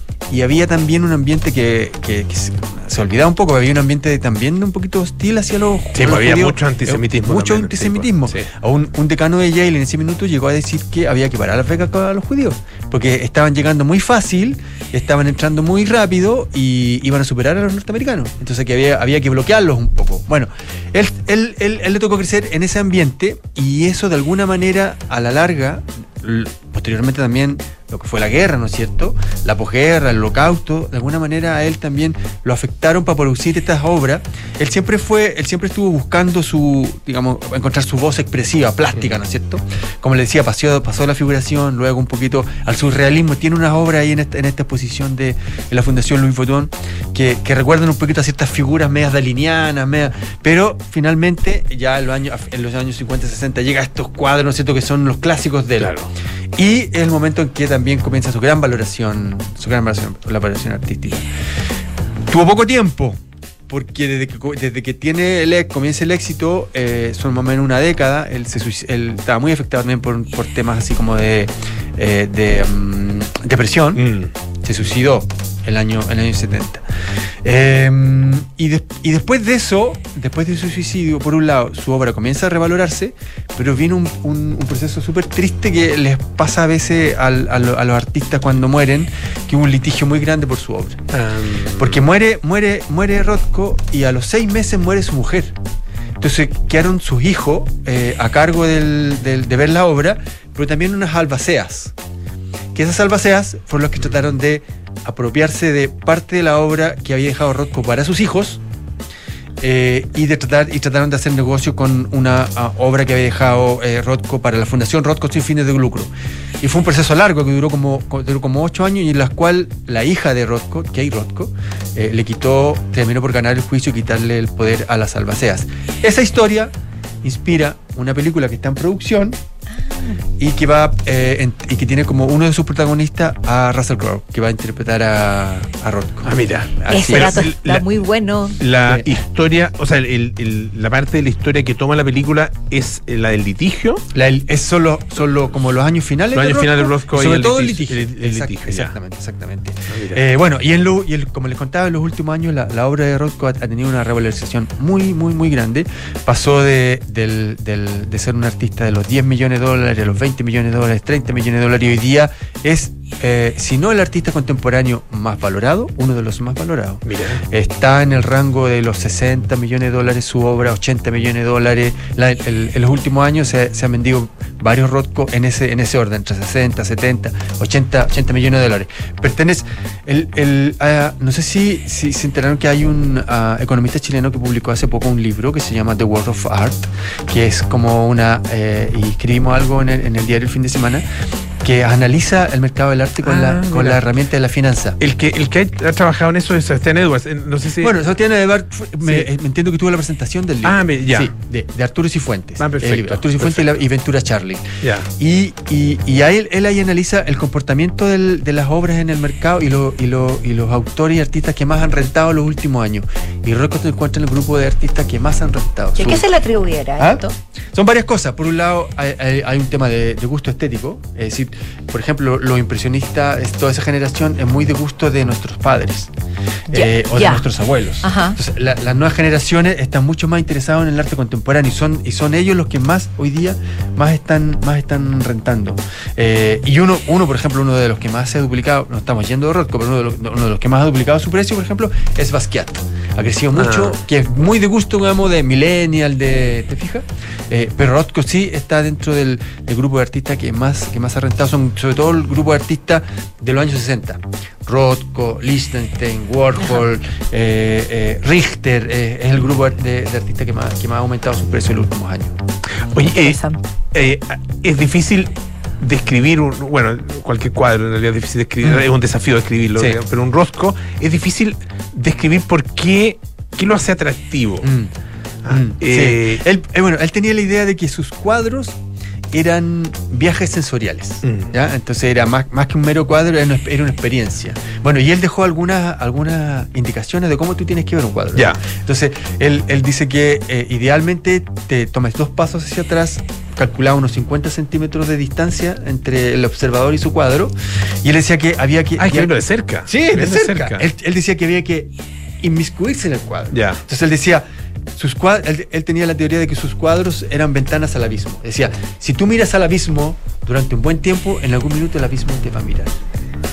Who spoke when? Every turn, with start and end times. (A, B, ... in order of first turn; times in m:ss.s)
0:00.3-0:56.0 A
0:06.0-0:08.5 B
0:55.8-0:56.1 B
0:56.6-1:01.3 A
1:02.3-1:14.0 A
1:14.0-1:14.3 B
1:14.6-1:16.8 A
1:17.4-1:31.0 A
1:31.1-1:32.0 B
1:31.8-1:35.6 A
1:36.2-1:41.9 A
1:42.7-1:48.6 A
1:49.6-2:09.4 A
2:10.4-2:16.4 A
2:16.2-2:17.9 B
2:16.9-2:17.5 A
2:16.9-2:18.6 C
2:18.6-2:24.0 B
2:24.1-3:11.0 A
2:26.3-2:28.9 B
2:29.9-2:30.2 B
2:47.0-2:47.4 B
3:11.6-3:15.0 A
3:13.2-3:14.0 B
3:15.0-3:18.0 B
3:17.8-3:24.6 A
3:19.0-3:19.3 B
3:20.6-3:21.3 B
3:22.6-3:23.8 B
3:24.8-3:25.1 B
3:25.2-3:36.2 A
3:36.0-3:37.3 C
3:37.0-3:46.1 A
3:46.7-4:22.4 A
3:46.7-3:47.5 C
3:48.0-3:48.4 C
4:03.6-4:04.0 B
4:22.9-4:23.4 B
4:22.9-4:23.6 C
4:23.9-4:34.7 B
4:34.6-4:34.9 A
4:35.4-4:36.4 B
4:35.5-4:38.8 A
4:39.3-4:59.3 A
4:41.2-4:41.5 B
4:48.3-4:48.6 B
4:59.0-5:00.8 B
4:59.9-5:12.9 A
5:03.5-5:03.8 B